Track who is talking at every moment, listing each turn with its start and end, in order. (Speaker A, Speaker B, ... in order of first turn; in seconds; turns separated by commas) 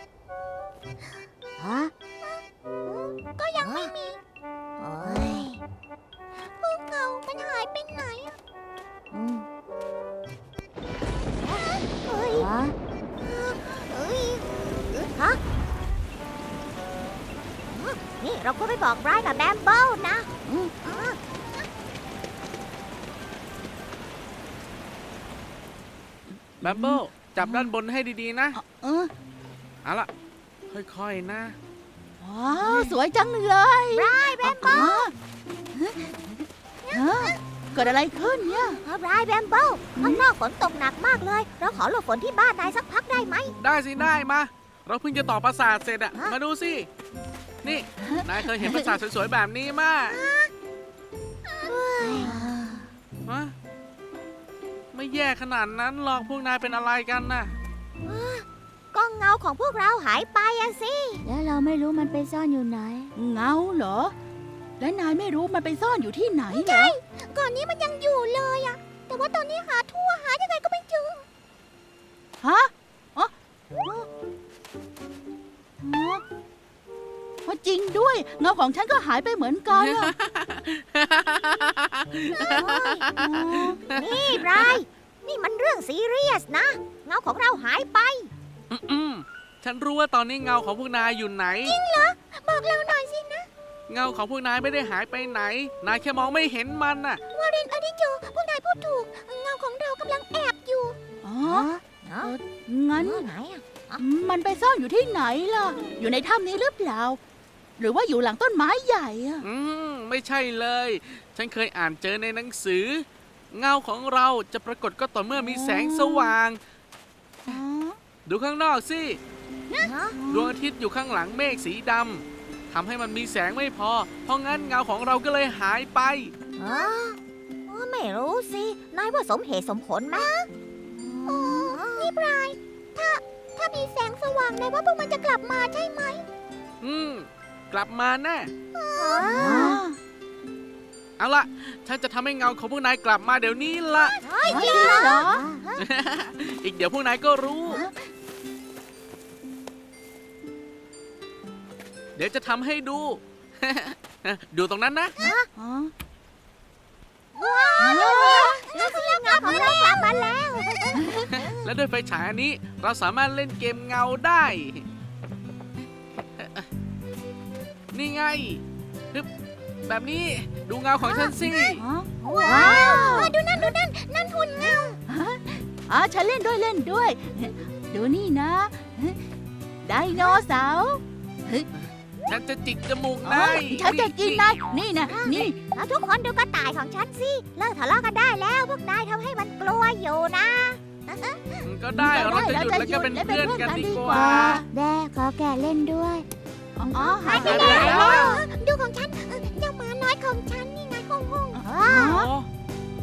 Speaker A: 1.6-1.9, Speaker B: 2.2-4.2, Speaker C: 4.8-5.6, Speaker A: 5.0-5.5, Speaker B: 6.6-8.4, Speaker A: 9.1-9.5, Speaker C: 11.4-12.5, Speaker A: 12.3-12.8, Speaker C: 13.2-15.4, Speaker C: 17.7-20.3, Speaker A: 20.5-20.7, Speaker C: 20.8-21.2, Speaker D: 26.6-28.6, Speaker E: 26.6-27.7, Speaker E: 28.6-29.1, Speaker D: 29.8-30.1, Speaker D: 30.7-31.6, Speaker E: 32.2-35.1, Speaker C: 33.9-35.0, Speaker E: 35.8-36.1, Speaker C: 36.9-37.4, Speaker E: 36.9-38.8, Speaker C: 38.4-43.5, Speaker E: 40.0-40.3, Speaker D: 43.6-46.9, Speaker D: 47.6-50.2, Speaker C: 50.1-50.5, Speaker C: 51.5-52.3, Speaker B: 51.8-52.2, Speaker E: 52.0-52.8, Speaker A: 52.1-52.5, Speaker D: 53.3-53.5, Speaker D: 54.9-57.5, Speaker C: 58.0-61.2, Speaker A: 61.2-63.1, Speaker E: 63.2-64.1, Speaker E: 64.8-67.0, Speaker B: 66.5-71.2, Speaker E: 72.4-73.3, Speaker E: 75.8-76.2, Speaker E: 77.5-80.1, Speaker D: 79.7-84.8, Speaker B: 82.3-82.8, Speaker C: 82.5-83.0, Speaker E: 83.2-83.8, Speaker C: 83.9-88.3, Speaker D: 88.7-91.8, Speaker B: 91.7-93.5, Speaker D: 93.9-97.2, Speaker B: 97.3-101.0, Speaker E: 101.2-101.7, Speaker C: 101.5-102.3, Speaker E: 102.2-103.3, Speaker C: 103.0-104.0, Speaker E: 104.0-107.2, Speaker E: 107.8-109.5, Speaker D: 109.4-116.6, Speaker E: 115.4-116.3, Speaker E: 117.5-118.0, Speaker D: 118.3-119.2, Speaker C: 119.8-120.2, Speaker E: 120.1-120.5, Speaker D: 120.3-126.3, Speaker C: 126.6-130.3, Speaker B: 126.6-126.9, Speaker B: 130.1-130.5, Speaker E: 131.0-131.6, Speaker B: 131.2-136.2, Speaker C: 131.3-132.1, Speaker D: 136.8-138.5, Speaker B: 138.8-139.7, Speaker C: 138.9-139.4, Speaker E: 139.3-140.0, Speaker A: 139.4-139.8, Speaker D: 141.2-144.2, Speaker C: 144.2-145.8, Speaker E: 144.4-145.4, Speaker A: 145.2-145.6, Speaker D: 145.8-147.9, Speaker E: 147.7-147.9, Speaker D: 152.2-155.2, Speaker C: 155.2-155.5, Speaker E: 155.6-155.9, Speaker C: 157.3-161.5, Speaker B: 157.8-160.2, Speaker E: 157.8-158.7, Speaker D: 161.2-164.8, Speaker D: 166.4-166.7, Speaker D: 167.9-169.3, Speaker D: 169.9-171.8, Speaker B: 171.1-171.3, Speaker E: 171.7-173.7, Speaker B: 172.3-175.0, Speaker E: 175.1-179.2, Speaker E: 179.8-181.7, Speaker D: 182.3-184.5, Speaker E: 183.2-185.6, Speaker C: 185.1-191.6, Speaker D: 191.6-194.6, Speaker E: 192.0-194.6, Speaker A: 194.1-196.2, Speaker E: 196.8-198.2, Speaker B: 196.9-201.6, Speaker C: 197.3-198.3, Speaker D: 197.3-198.4, Speaker E: 201.6-202.3, Speaker C: 201.6-202.1, Speaker D: 202.1-202.5